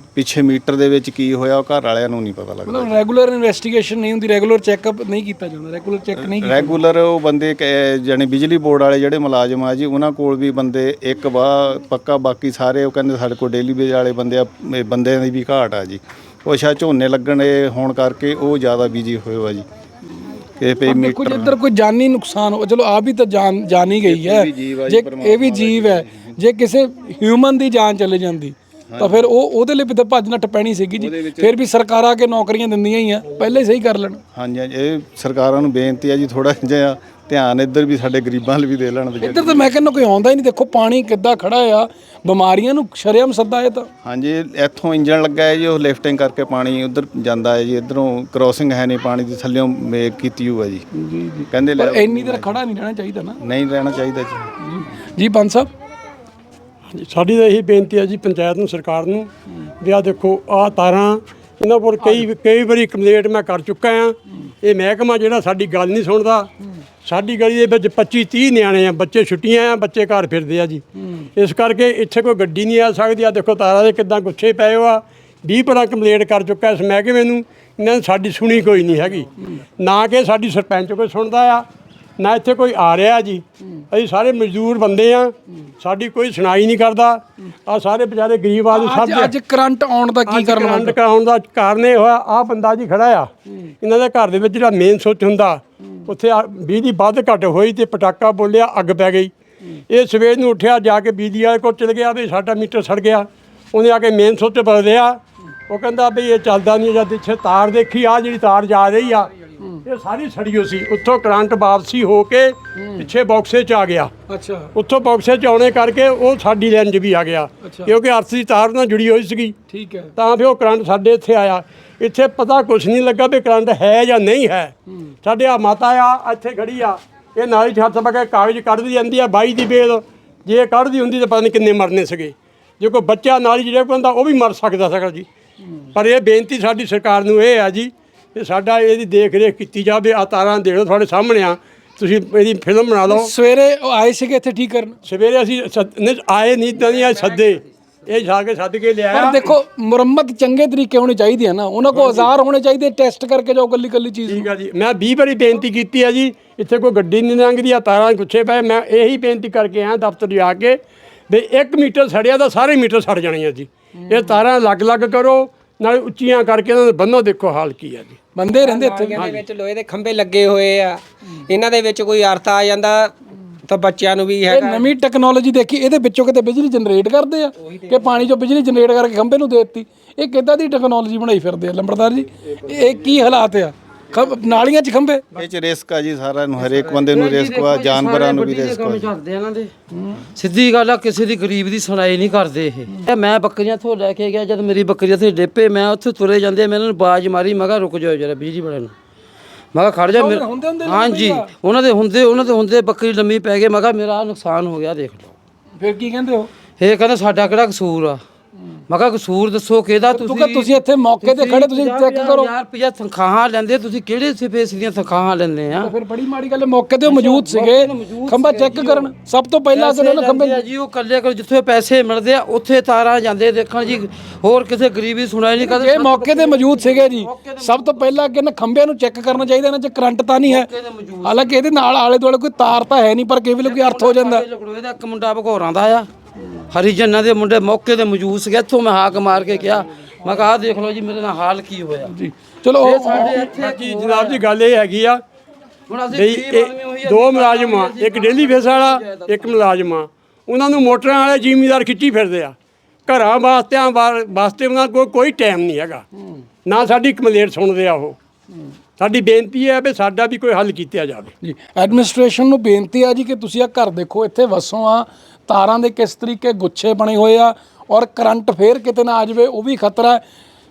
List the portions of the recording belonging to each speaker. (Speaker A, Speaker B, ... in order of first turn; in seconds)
Speaker A: 0.1-2.9, 6.2-19.7, 20.6-21.6, 24.0-26.3, 28.9-29.3, 31.0-31.6, 34.4-39.7, 44.0-50.9, 51.5-52.6, 53.4-54.5, 185.3-189.1
Speaker B: 2.7-6.8, 20.9-34.2, 39.2-43.9, 50.9-53.4, 54.6-55.7, 88.7-91.0, 112.8-113.1, 114.3-114.7, 117.6-118.0, 119.7-120.1, 143.1-145.0, 149.1-154.5, 168.4-169.3, 174.5-185.2, 189.9-190.2, 200.1-201.5, 205.8-206.5, 210.1-212.5, 215.8-220.6, 225.6-230.7, 231.2-234.4, 242.1-243.5, 261.4-270.2
Speaker C: 56.9-59.3, 59.8-66.5, 67.0-81.7, 82.2-89.4, 90.3-93.3, 93.8-99.3, 99.9-109.3, 109.8-114.1, 114.8-119.6, 120.2-135.3, 135.9-143.3, 145.1-149.6, 151.9-152.3, 154.3-160.8, 161.3-168.2, 169.2-169.4, 243.3-245.2, 246.1-252.6, 253.1-256.1, 256.6-258.2, 259.0-261.3
Speaker D: 168.6-173.1, 173.7-174.9
Speaker E: 186.9-189.7, 190.3-198.9, 199.7-205.3, 206.8-208.2, 208.9-215.9, 217.1-219.1, 219.7-228.1, 230.4-231.6, 233.6-236.1, 236.7-242.1, 242.8-244.4, 245.9-249.6